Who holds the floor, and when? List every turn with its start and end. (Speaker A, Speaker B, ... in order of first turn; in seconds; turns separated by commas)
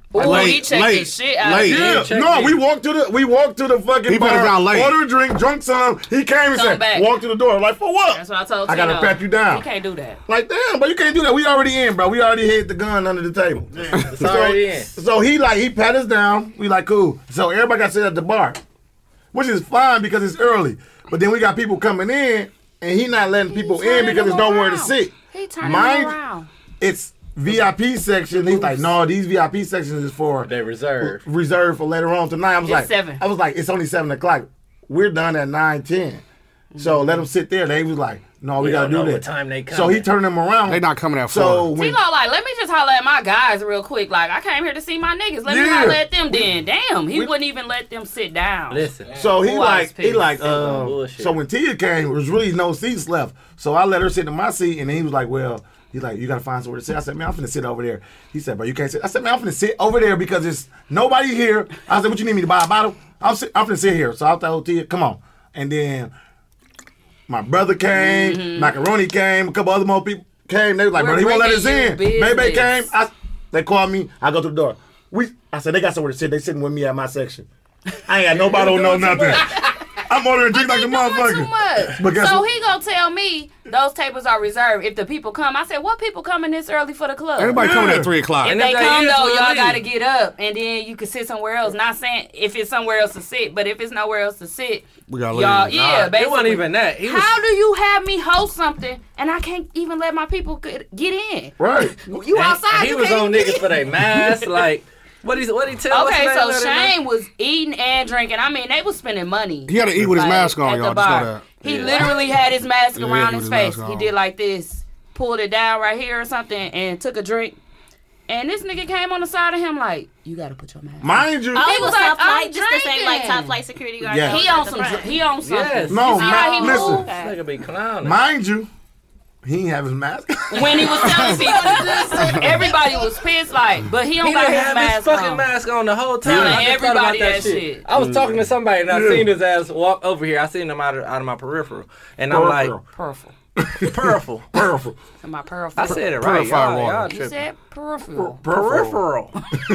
Speaker A: 0.1-2.0, Speaker B: 0.2-2.0, Speaker C: 0.2-0.5, Speaker D: 1.6-9.7, Speaker C: 1.7-2.6, Speaker B: 4.1-5.0, Speaker A: 6.5-7.1, Speaker A: 8.1-10.2, Speaker D: 10.3-18.6, Speaker C: 14.1-14.9, Speaker D: 19.3-26.2, Speaker A: 23.5-26.5, Speaker D: 26.8-36.2, Speaker C: 30.4-31.2, Speaker A: 32.6-33.2, Speaker A: 36.7-37.2, Speaker D: 36.8-42.0, Speaker C: 38.6-40.1, Speaker B: 40.7-41.7, Speaker A: 41.8-50.4, Speaker D: 45.5-46.5, Speaker C: 48.7-49.2, Speaker D: 49.1-66.1, Speaker C: 50.4-51.4, Speaker D: 67.3-77.5, Speaker A: 67.9-68.8, Speaker A: 71.0-72.9, Speaker D: 78.0-82.5, Speaker C: 78.4-79.2, Speaker A: 78.8-79.8, Speaker A: 80.5-87.8, Speaker B: 87.4-88.6, Speaker D: 87.6-88.1, Speaker C: 88.4-89.8, Speaker A: 88.4-104.3, Speaker B: 95.1-95.9, Speaker C: 95.7-97.3, Speaker D: 101.6-102.0, Speaker C: 102.3-107.0, Speaker A: 105.9-117.6, Speaker B: 109.7-111.5, Speaker C: 111.6-112.1, Speaker B: 113.0-114.1, Speaker A: 118.3-123.6, Speaker D: 121.0-121.7, Speaker E: 121.5-125.2, Speaker D: 124.0-124.4, Speaker A: 124.2-127.1, Speaker C: 125.5-128.2, Speaker D: 125.9-127.1, Speaker E: 126.1-127.4, Speaker D: 128.0-128.7, Speaker D: 129.4-131.2, Speaker A: 130.5-135.5, Speaker E: 131.1-133.1, Speaker C: 134.2-142.8, Speaker A: 136.2-137.8, Speaker B: 136.3-136.6, Speaker B: 138.0-138.4, Speaker D: 138.9-139.3, Speaker D: 142.3-142.8, Speaker A: 142.9-143.3, Speaker D: 143.6-144.0, Speaker C: 143.8-144.5, Speaker D: 144.5-144.9, Speaker A: 145.2-146.1, Speaker C: 145.8-147.4, Speaker B: 145.9-147.1, Speaker A: 147.1-148.4, Speaker C: 148.4-149.3, Speaker B: 148.6-148.9